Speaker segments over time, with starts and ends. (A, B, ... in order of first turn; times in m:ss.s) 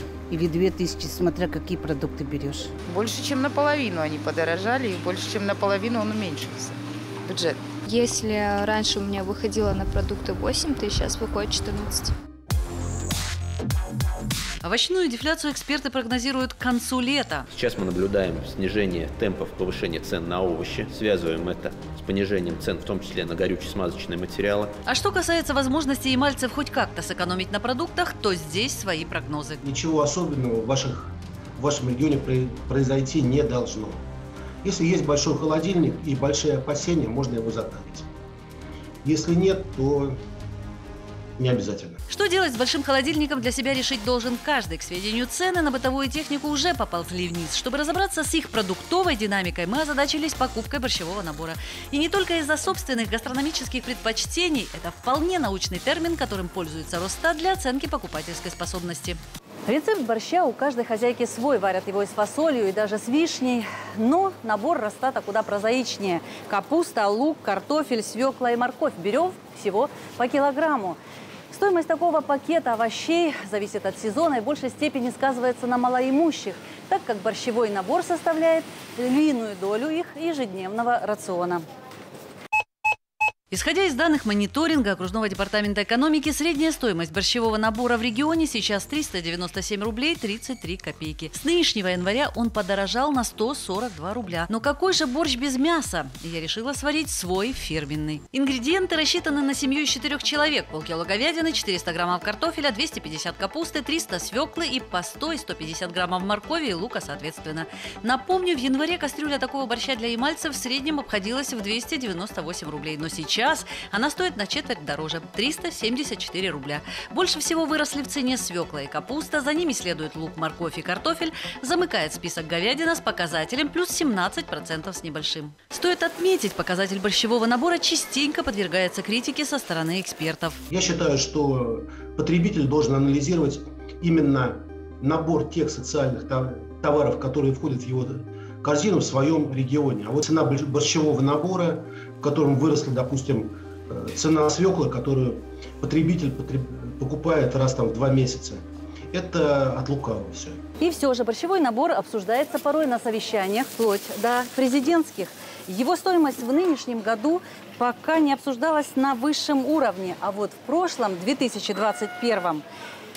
0:00.3-0:02.7 A
0:02.9-0:06.7 B
0:08.0-0:12.1 C
0:14.6-0:17.5 D
0:17.5-0:24.7 E
0:24.9-0:29.6 D
0:29.6-0:34.1 F
0:34.6-0:38.1 F
0:39.0-0:40.2 F
0:41.4-0:42.0 F
0:42.1-1:11.0 D
1:11.5-1:21.7 D
1:23.5-2:10.6 D
2:10.7-2:30.6 F
2:30.8-2:42.6 D